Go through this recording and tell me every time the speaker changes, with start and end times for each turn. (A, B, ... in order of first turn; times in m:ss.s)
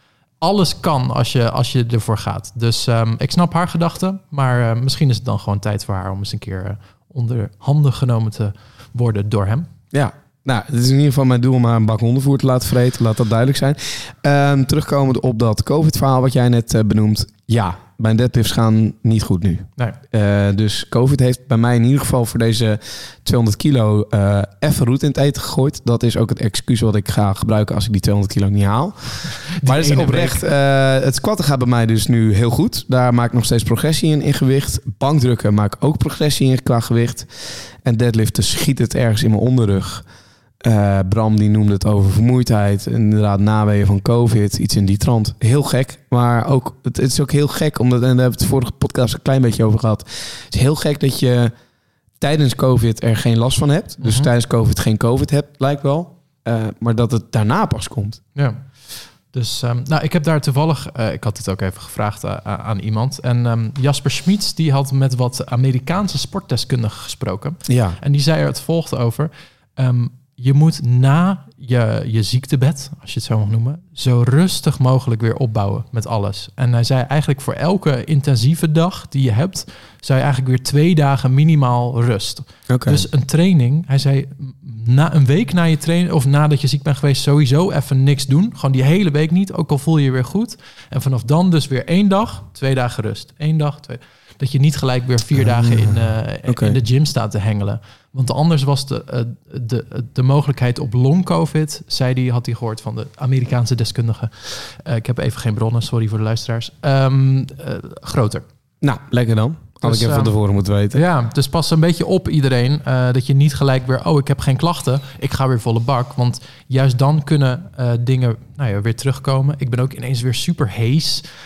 0:00.4-0:09.7 A
0:09.9-0:40.0 B
0:29.5-0:30.4 A
0:40.6-0:51.5 B
0:52.2-0:58.2 B
0:54.0-0:54.3 A
0:59.3-1:48.4 A
1:07.7-1:08.0 B
1:22.7-1:23.0 B
1:35.4-1:36.8 B
1:48.8-1:51.0 B
1:49.8-1:50.4 A
1:50.9-2:01.2 A